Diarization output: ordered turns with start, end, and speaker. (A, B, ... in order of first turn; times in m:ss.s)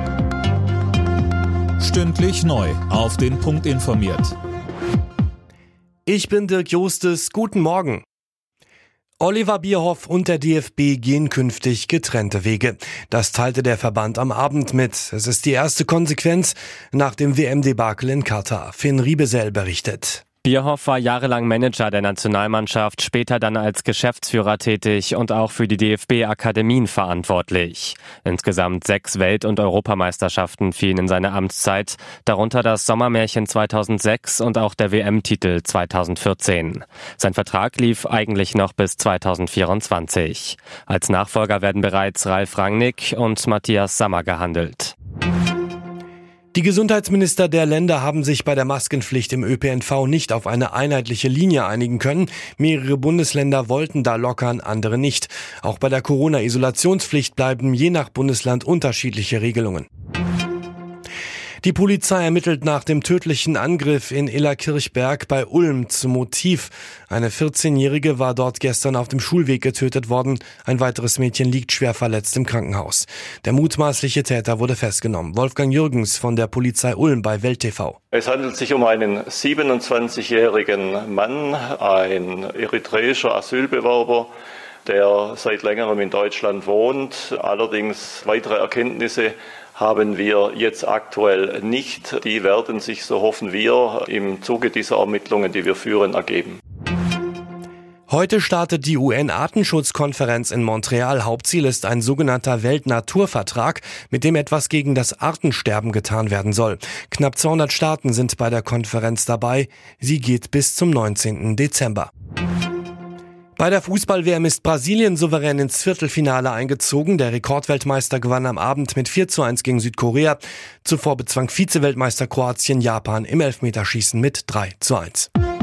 0:01.8-0:04.3 A
0:06.0-0:08.0 B
0:09.2-0:20.2 B
0:20.4-0:44.9 C
0:46.5-0:59.9 B
1:01.6-1:18.0 B
1:18.1-1:24.3 D
1:24.8-1:36.6 D
1:38.1-1:52.1 B
1:53.6-2:05.3 B